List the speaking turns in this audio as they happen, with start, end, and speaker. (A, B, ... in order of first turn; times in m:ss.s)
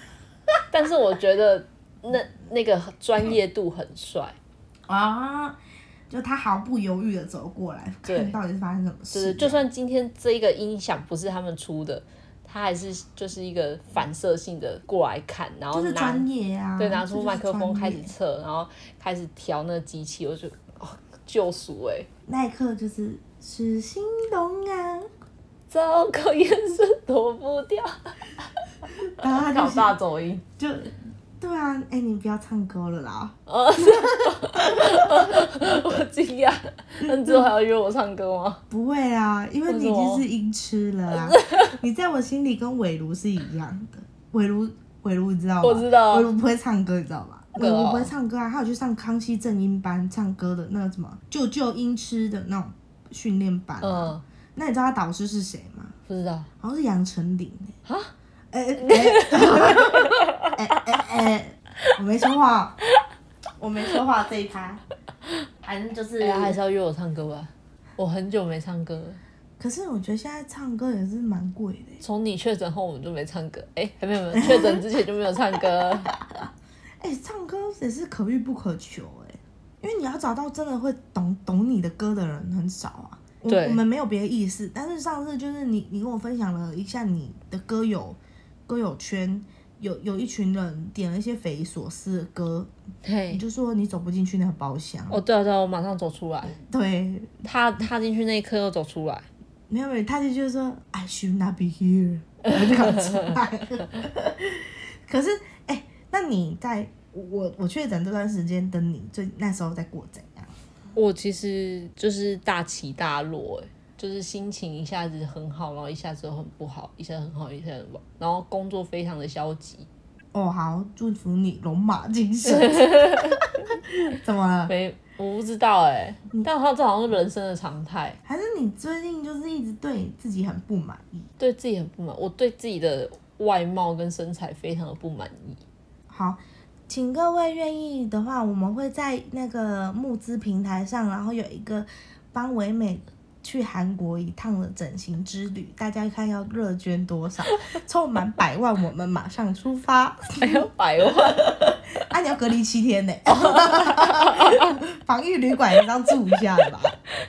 0:00.7-0:04.4 A
0:04.9-0:05.6 B
0:06.1-0:09.6 B
0:08.1-0:08.4 A
0:09.1-0:16.3 A
0:15.7-0:18.1 B
0:16.8-0:22.1 A
0:22.3-0:25.1 B
0:25.7-0:28.1 A
0:29.0-0:29.9 B
0:29.2-0:30.4 A
0:30.6-0:35.5 B
0:33.5-0:38.6 A
0:37.0-0:37.5 B
0:38.7-0:55.9 B
0:39.7-0:40.2 A
0:41.2-0:41.7 A
0:45.6-0:46.3 A
0:47.6-0:48.1 A
0:53.8-0:54.2 A
0:56.1-0:56.5 A
0:56.6-0:57.8 B
0:58.5-1:02.8 B
0:58.8-1:00.5 A
1:03.6-1:04.8 B
1:05.6-1:06.6 B
1:06.2-1:09.2 A
1:09.6-1:12.0 B
1:12.0-1:16.1 A
1:14.3-1:14.8 B
1:17.0-1:32.7 B
1:23.5-1:23.8 A
1:33.0-1:33.4 A
1:33.3-1:35.2 B
1:35.1-1:36.6 A
1:36.6-1:37.3 B
1:37.4-1:39.3 A
1:39.7-1:50.5 B
1:51.0-1:59.9 A
2:00.3-2:04.7 B
2:02.4-2:03.4 A
2:04.7-2:08.2 A
2:08.3-2:11.3 B
2:11.4-2:15.6 A
2:16.1-2:30.7 B
2:30.4-2:31.5 A
2:31.4-2:37.0 B
2:33.3-2:34.8 A